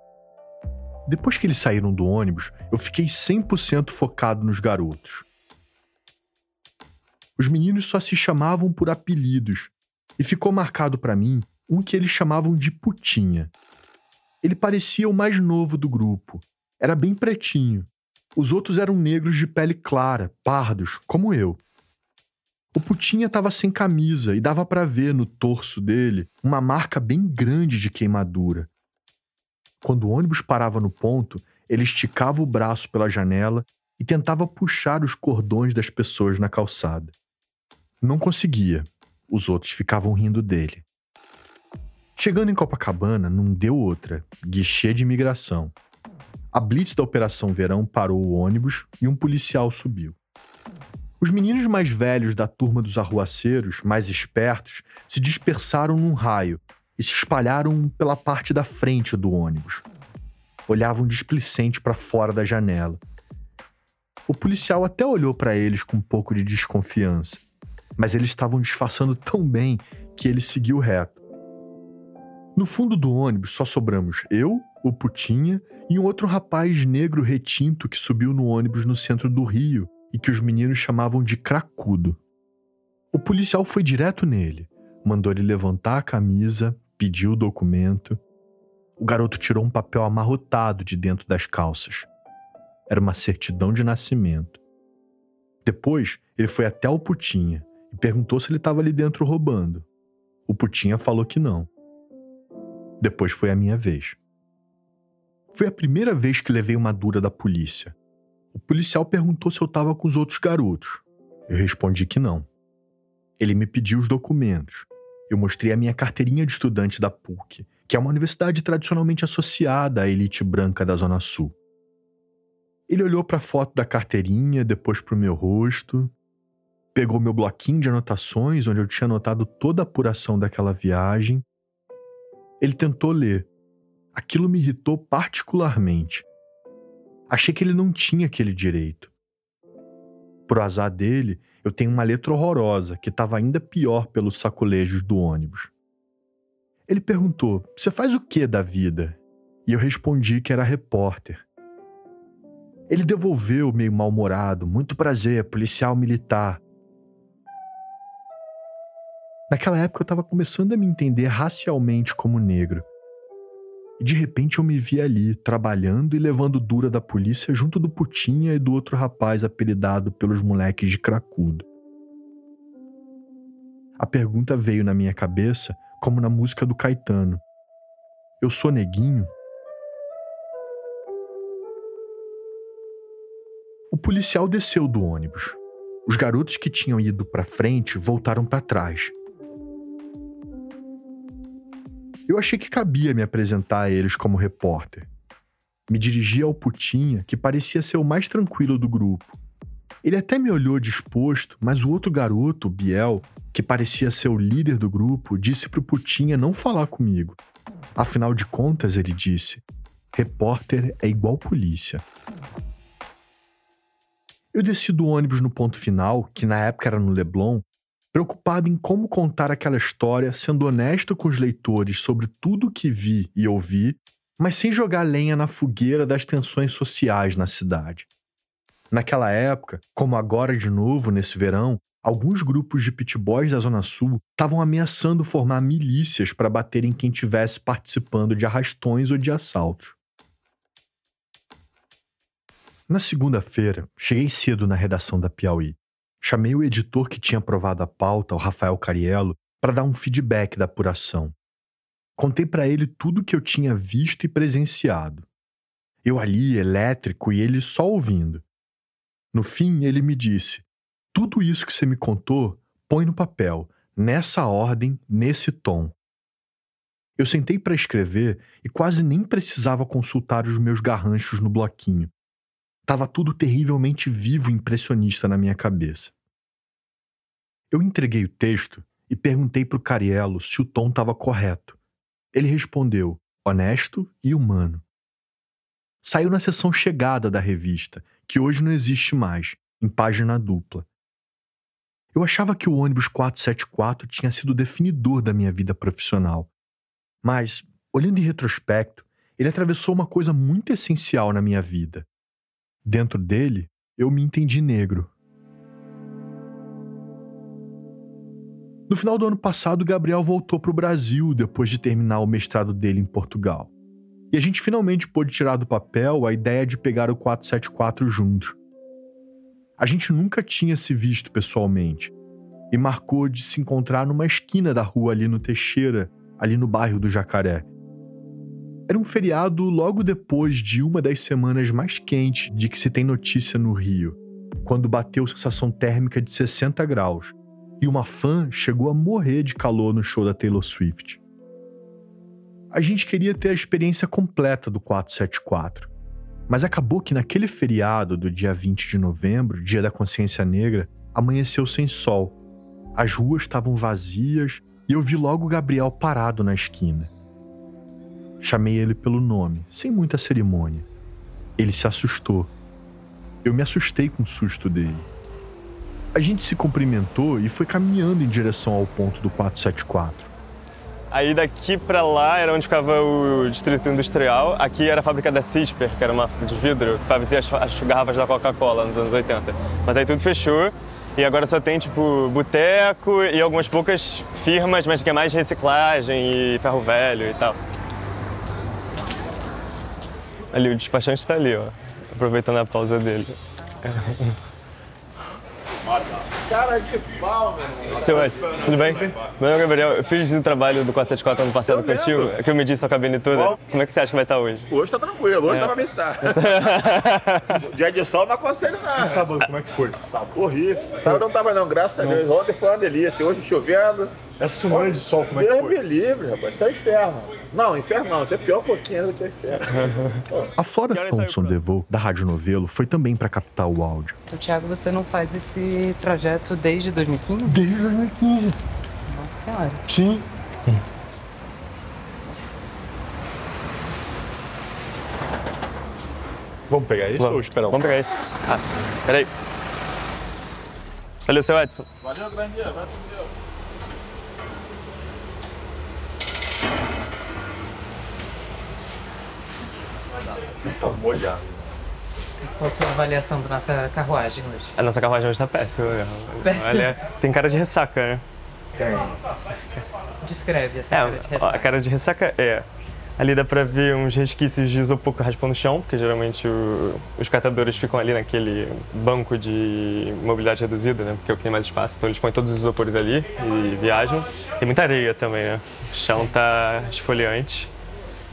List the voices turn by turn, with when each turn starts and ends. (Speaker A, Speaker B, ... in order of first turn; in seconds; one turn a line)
Speaker A: 1.1-5.2
Speaker A: 7.4-13.5
Speaker A: 14.4-21.6
Speaker A: 22.7-28.7
Speaker A: 29.8-37.1
Speaker A: 38.0-40.8
Speaker A: 42.2-45.7
Speaker A: 46.5-50.1
Speaker A: 51.2-59.8
Speaker A: 60.7-63.0
Speaker A: 64.3-67.4
Speaker A: 68.0-71.2
Speaker A: 72.5-82.2
Speaker A: 83.1-88.2
Speaker A: 89.0-92.1
Speaker A: 92.9-94.6
Speaker A: 95.6-99.8
Speaker A: 100.5-101.7
Speaker A: 103.0-104.2
Speaker A: 105.5-107.9
Speaker A: 108.5-112.5
Speaker A: 113.4-121.5
Speaker A: 122.9-126.1
Speaker A: 126.9-131.4
Speaker A: 132.6-133.5
Speaker A: 134.1-136.2
Speaker A: 137.3-139.1
Speaker A: 140.5-145.7
Speaker A: 146.9-151.4
Speaker A: 152.9-156.6
Speaker A: 159.5-162.8
Speaker A: 164.0-171.6
Speaker A: 174.0-177.4
Speaker A: 178.4-179.3
Speaker A: 183.9-189.1
Speaker A: 192.3-195.1
Speaker A: 195.9-199.3
Speaker A: 200.0-207.4
Speaker A: 207.9-209.6
Speaker A: 210.1-212.0
Speaker A: 214.5-228.1
Speaker A: 228.9-239.9
Speaker A: 242.9-251.3
Speaker A: 252.2-255.2
Speaker A: 256.0-258.4
Speaker A: 259.3-265.9
Speaker A: 267.2-272.1
Speaker A: 272.9-276.1
Speaker A: 277.7-281.8
Speaker A: 282.3-284.8
Speaker A: 286.0-290.9
Speaker A: 292.1-296.5
Speaker A: 297.2-302.1
Speaker A: 302.8-305.1
Speaker A: 308.9-313.7
Speaker A: 314.3-318.6
Speaker A: 319.8-322.1
Speaker A: 322.7-327.7
Speaker A: 328.9-341.2
Speaker A: 342.7-345.9
Speaker A: 346.5-352.4
Speaker A: 352.9-357.1
Speaker A: 358.4-360.9
Speaker A: 361.6-362.5
Speaker A: 363.4-365.1
Speaker A: 366.1-370.3
Speaker B: 371.1-387.6
Speaker B: 390.5-394.4
Speaker C: 396.5-398.6
Speaker B: 397.9-404.7
Speaker C: 401.6-402.4
Speaker C: 403.3-403.6
Speaker C: 404.7-406.4
Speaker B: 405.5-407.5
Speaker C: 407.6-409.5
Speaker A: 408.9-410.1
Speaker C: 410.0-420.5
Speaker A: 412.0-412.3
Speaker A: 414.4-415.8
Speaker A: 420.6-424.2
Speaker B: 420.9-421.6
Speaker D: 424.3-427.6
Speaker A: 427.4-428.6
Speaker D: 429.1-429.8
Speaker A: 429.9-430.2
Speaker A: 436.7-437.9
Speaker B: 437.1-439.3
Speaker B: 441.2-441.9
Speaker C: 450.8-451.4
Speaker D: 452.4-454.7
Speaker B: 454.8-458.2
Speaker D: 456.5-457.1
Speaker D: 458.8-459.1
Speaker D: 460.2-461.6
Speaker B: 460.9-462.7
Speaker B: 463.2-477.7